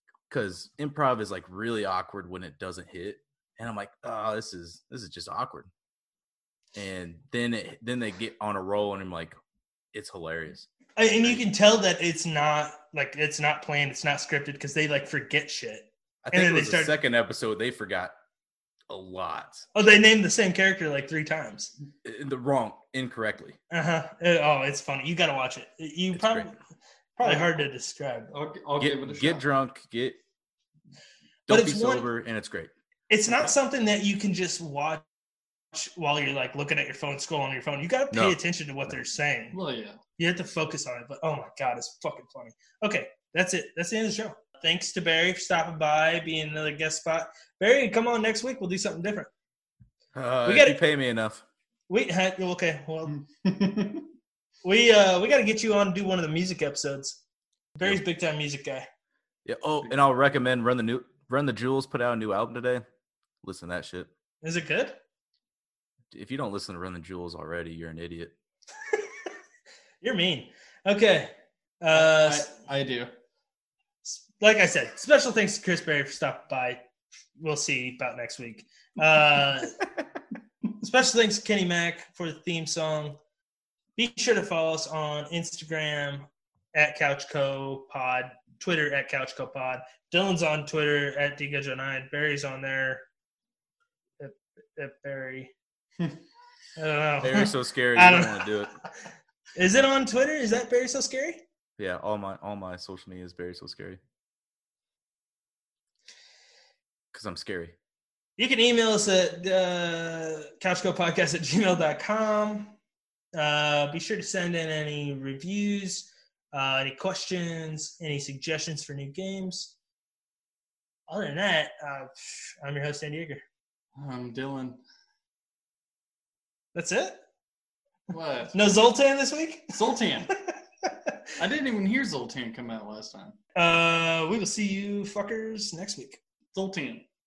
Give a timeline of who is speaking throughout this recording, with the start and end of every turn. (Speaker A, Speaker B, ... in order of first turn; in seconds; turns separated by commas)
Speaker A: 0.3-5.7, Speaker A: 6.8-9.4, Speaker A: 9.9-10.7, Speaker B: 11.0-16.9, Speaker A: 16.2-18.1, Speaker A: 18.9-19.7, Speaker B: 19.8-21.7, Speaker A: 22.1-23.6, Speaker B: 23.7-26.6, Speaker A: 26.1-26.5, Speaker B: 27.2-28.3, Speaker C: 27.2-27.6, Speaker C: 28.3-29.4, Speaker A: 28.8-30.2, Speaker A: 31.5-32.7, Speaker B: 31.5-32.1, Speaker B: 33.1-35.0, Speaker B: 35.7-39.6, Speaker A: 38.1-38.4, Speaker C: 39.5-40.0, Speaker B: 40.2-49.3, Speaker A: 50.1-51.4, Speaker B: 50.5-50.8, Speaker B: 51.9-53.2, Speaker C: 53.3-54.1, Speaker B: 54.6-57.2, Speaker B: 57.8-58.9, Speaker A: 59.5-62.8, Speaker A: 63.4-64.1, Speaker B: 64.4-65.0, Speaker A: 66.1-68.3, Speaker B: 70.0-72.5, Speaker C: 71.9-73.1, Speaker B: 74.0-76.8, Speaker B: 77.4-79.8, Speaker B: 80.8-83.2, Speaker B: 84.0-93.0, Speaker B: 94.2-95.5, Speaker B: 96.8-98.6, Speaker A: 97.2-98.7, Speaker B: 99.5-101.4, Speaker A: 101.8-104.0, Speaker A: 107.1-107.8, Speaker B: 108.4-112.8, Speaker B: 113.4-119.7, Speaker B: 121.1-123.4, Speaker C: 124.0-124.8, Speaker B: 126.8-127.2, Speaker C: 128.1-128.7, Speaker B: 128.5-131.2, Speaker C: 129.7-130.3, Speaker C: 131.4-133.4, Speaker B: 133.6-136.2, Speaker C: 136.5-137.1